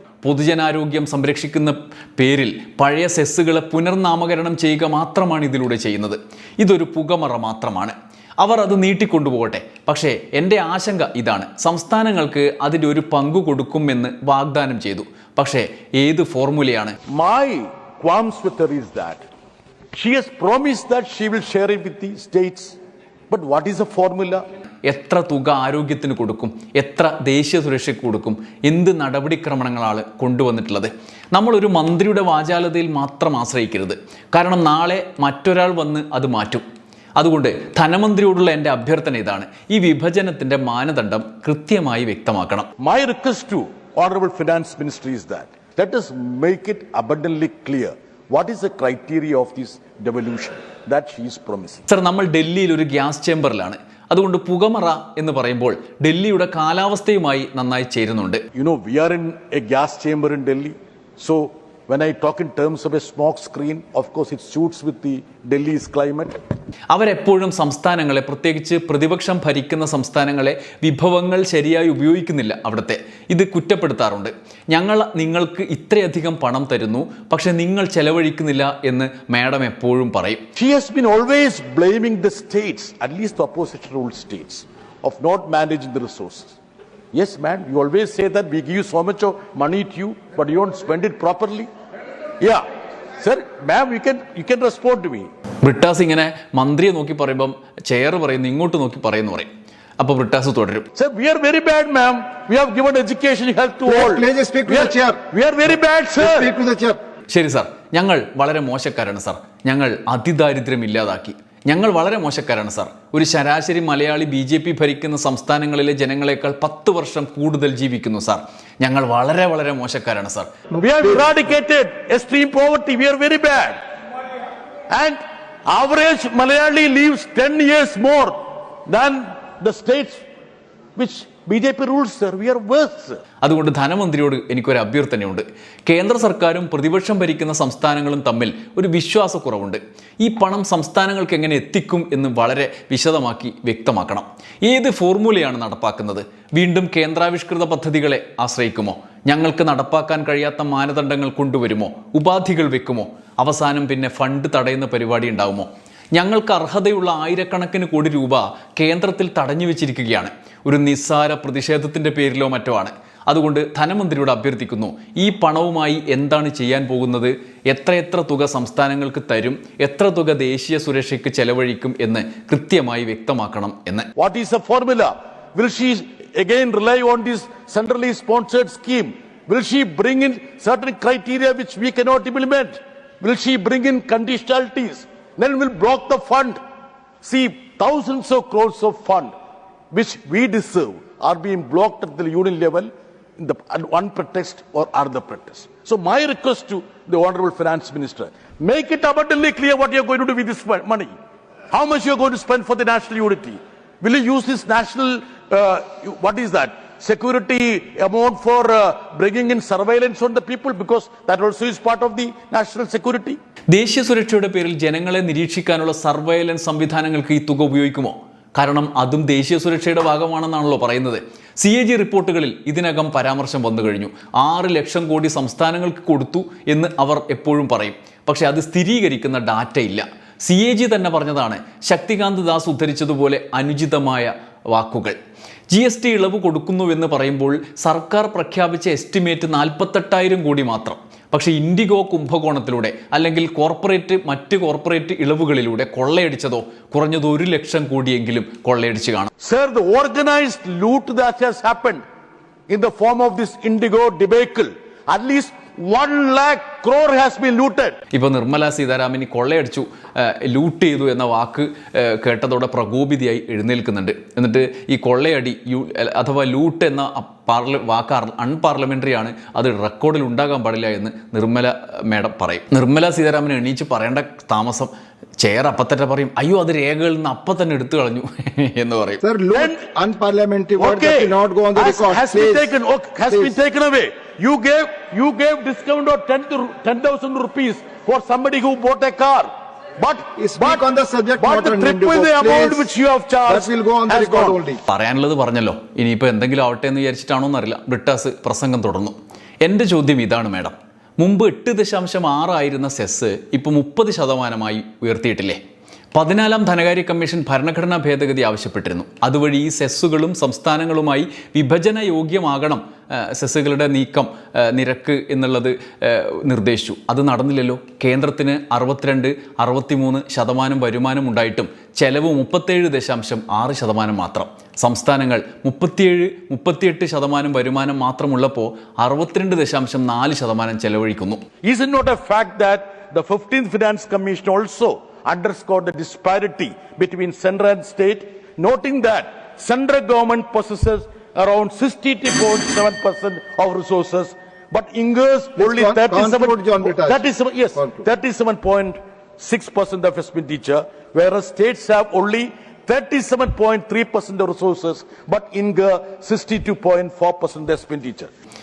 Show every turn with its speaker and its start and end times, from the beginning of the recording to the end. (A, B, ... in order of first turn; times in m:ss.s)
0:00.2-0:17.0 A
0:17.1-0:19.2 B
0:19.9-0:22.8 B
0:23.3-0:24.4 B
0:24.8-0:36.6 A
0:37.2-0:42.7 A
0:42.8-0:51.8 B
0:51.9-0:58.4 A
0:58.5-1:06.4 B
1:06.9-1:20.4 A
1:20.6-1:26.6 B
1:27.1-1:31.7 B
1:32.4-1:32.6 B
1:33.2-1:35.3 B
1:35.6-1:40.9 A
1:40.9-1:46.5 B
1:43.8-1:45.2 C
1:46.2-1:47.0 C
1:47.3-2:00.5 A
2:00.7-2:03.8 B
2:04.9-2:10.2 B
2:11.0-2:13.2 B
2:13.4-2:54.1 A
2:54.2-3:06.6 B
3:07.2-3:09.3 B
3:09.9-3:21.1 B
3:21.7-3:33.4 B
3:33.7-3:55.2 A
3:55.7-4:09.3 A
4:09.4-4:12.0 B
4:12.7-4:18.0 B
4:18.1-4:39.2 A
4:39.2-4:42.7 C
4:39.5-4:39.9 B
4:40.8-4:54.6 B
4:50.4-4:52.9 C
4:53.4-4:54.8 C
4:54.9-5:05.6 A
5:06.1-5:31.4 A
5:31.6-5:58.3 B
5:45.6-5:47.2 C
5:47.8-5:48.0 C